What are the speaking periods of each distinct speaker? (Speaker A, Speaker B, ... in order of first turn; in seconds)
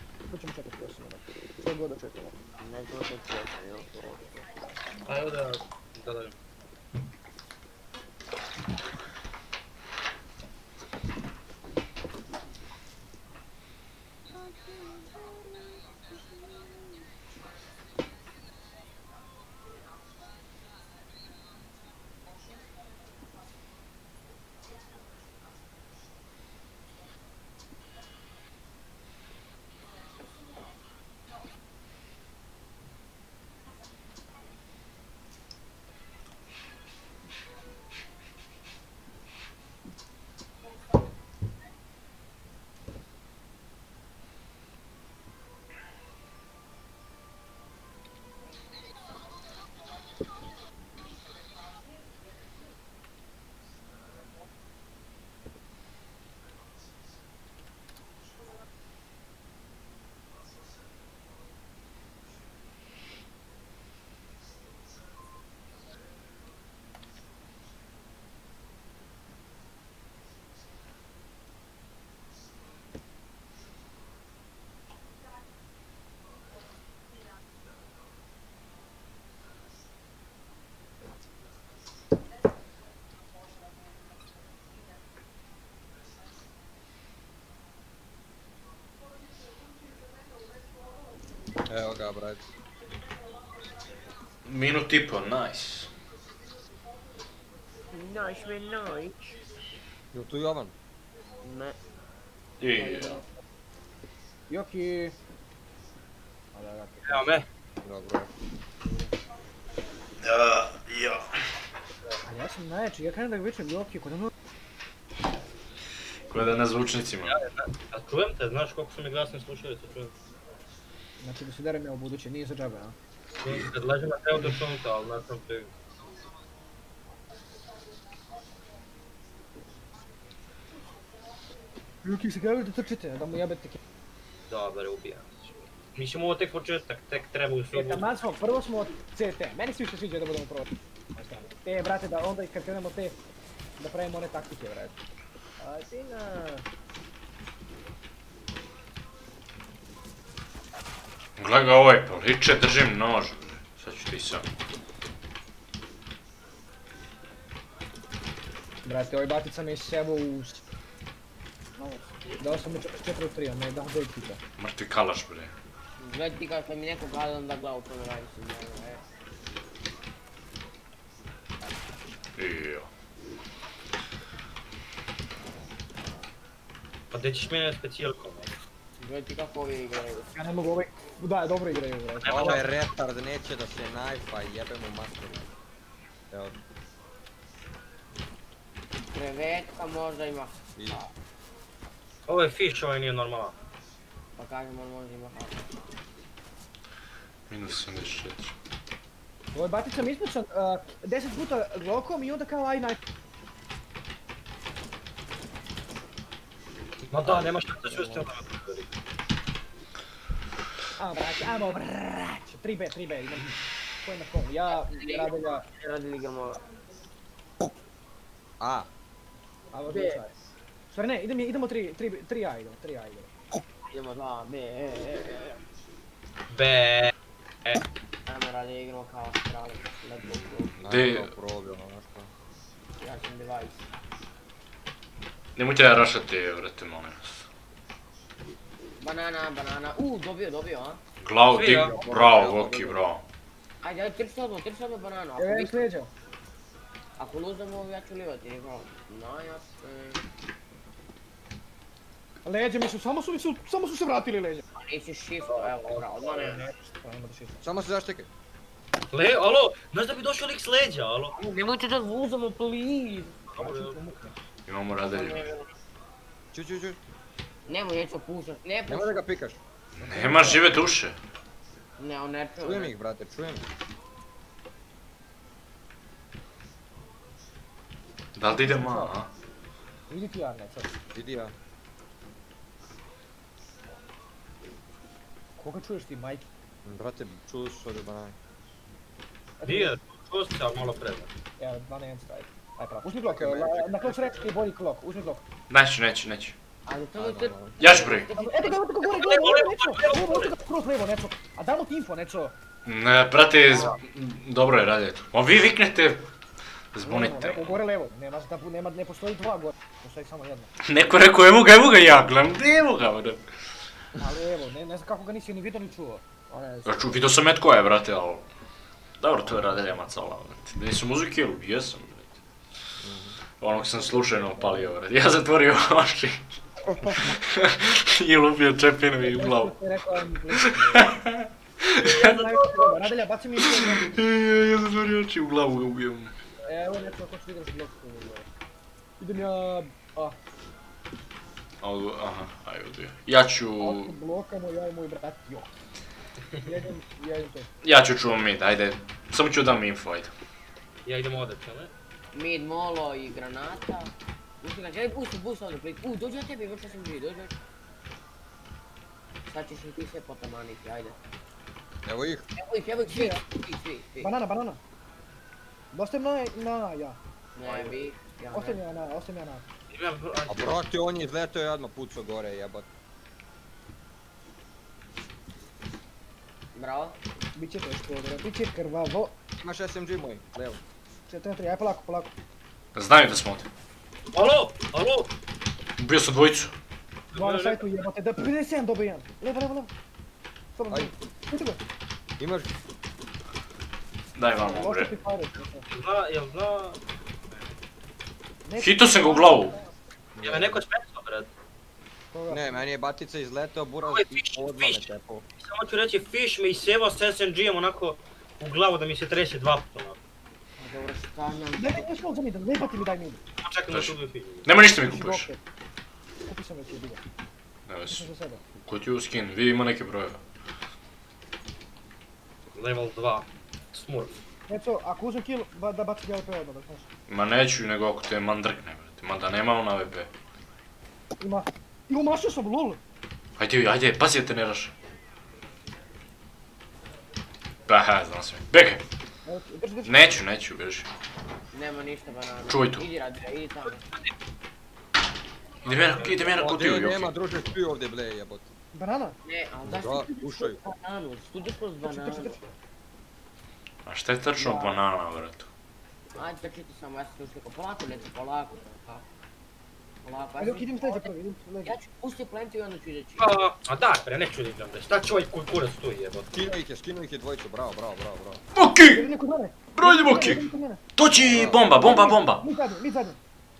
Speaker A: 0.3-2.3, 104.5-105.1, 106.5-107.4, 112.2-114.3, 121.2-123.0, 132.0-133.8, 137.7-143.2, 143.8-145.0, 145.6-146.4, 158.8-160.6, 161.8-164.4, 180.3-182.7, 199.5-203.0, 207.9-208.2, 211.0-215.6, 219.7-220.3, 220.9-223.3, 245.4-246.1, 252.4-254.6, 256.4-257.6, 263.6-264.3, 270.0-270.7, 278.5-279.2, 280.1-280.9, 285.6-286.4, 289.6-289.9, 291.6-295.4, 298.3-302.5, 307.0-310.7, 314.2-317.2, 323.7-324.9, 326.8-327.4, 329.2-331.2, 332.1-334.1, 336.6-338.4, 339.2-340.4, 343.8-345.7, 346.6-347.7, 363.0-363.4, 364.2-364.8, 365.9-367.2, 368.5-369.6, 377.5-379.3, 381.3-382.3, 387.3-389.9, 390.7-391.8, 394.6-395.8, 398.6-399.9, 402.3-402.7, 411.8-413.4, 414.9-415.6, 416.4-417.2, 418.1-418.6, 424.7-427.1, 431.4-433.0, 439.4-440.4, 448.9-449.4, 452.0-452.6, 454.5-455.0, 460.6-461.9, 469.0-471.0, 471.9-473.4
Speaker B: 2.6-4.4, 97.9-99.4, 101.4-101.8, 102.7-103.2, 145.7-146.5, 166.0-169.0, 179.0-180.3, 189.1-191.1, 194.4-195.8, 214.7-216.6, 219.9-220.2, 223.9-225.6, 228.3-230.7, 233.0-233.8, 239.0-241.0, 243.8-245.9, 247.2-250.2, 254.8-256.6, 261.3-263.4, 265.1-265.7, 267.7-269.2, 272.0-272.9, 296.9-298.8, 352.3-357.5, 359.5-361.2, 362.6-364.3, 367.6-368.8, 376.7-377.2, 410.8-412.1, 441.7-444.1, 449.4-452.6, 456.3-459.2, 460.2-461.3, 461.8-463.6
Speaker C: 5.0-6.3, 107.0-107.5, 117.3-120.1, 123.4-125.7, 134.5-138.1, 177.1-178.5, 182.2-182.8, 192.3-193.6, 207.1-208.9, 226.5-227.1, 241.5-242.0, 255.5-256.6, 259.1-261.3, 263.5-264.1, 289.6-291.3, 299.0-300.5, 332.0-333.0, 351.1-351.9, 369.9-370.8, 384.3-385.3, 387.3-387.9, 395.9-397.0, 400.4-401.5, 404.1-410.2, 413.6-414.6, 422.7-424.4, 445.8-446.7, 463.4-466.6
Speaker D: 91.7-92.5, 100.1-100.7, 107.8-108.3, 182.3-185.5, 190.8-191.0, 218.6-218.9, 230.8-232.3, 241.7-243.0, 257.6-258.3, 266.5-267.0, 268.9-269.6, 272.6-273.6, 281.1-281.5, 286.8-288.4, 293.2-294.4, 297.1-297.8, 323.0-323.4, 362.0-362.5, 370.5-372.9, 379.6-380.8, 392.4-392.7, 400.3-400.8, 402.5-405.4, 446.5-448.7, 449.9-450.8, 466.5-468.6, 471.4-471.9
Speaker E: 94.4-95.9, 102.6-103.2, 110.2-111.3, 116.3-117.4, 151.4-154.5, 164.6-165.5, 172.3-172.9, 197.5-198.5, 230.8-231.3, 235.6-237.4, 241.2-243.2, 264.7-265.5, 269.9-271.1, 278.4-279.3, 295.7-296.6, 297.8-298.3, 302.9-306.3, 306.9-307.8, 310.8-313.4, 316.8-318.4, 319.2-322.3, 323.6-326.4, 327.1-332.5, 333.6-336.3, 341.8-344.1, 347.8-350.3, 382.9-383.7, 386.0-386.7, 394.3-395.1, 398.8-399.8, 413.9-415.5, 417.9-420.4, 427.3-430.3, 433.6-434.9, 437.9-439.0, 440.1-441.1, 442.7-443.1, 445.8-447.3, 454.1-455.7, 468.7-469.3, 469.9-472.6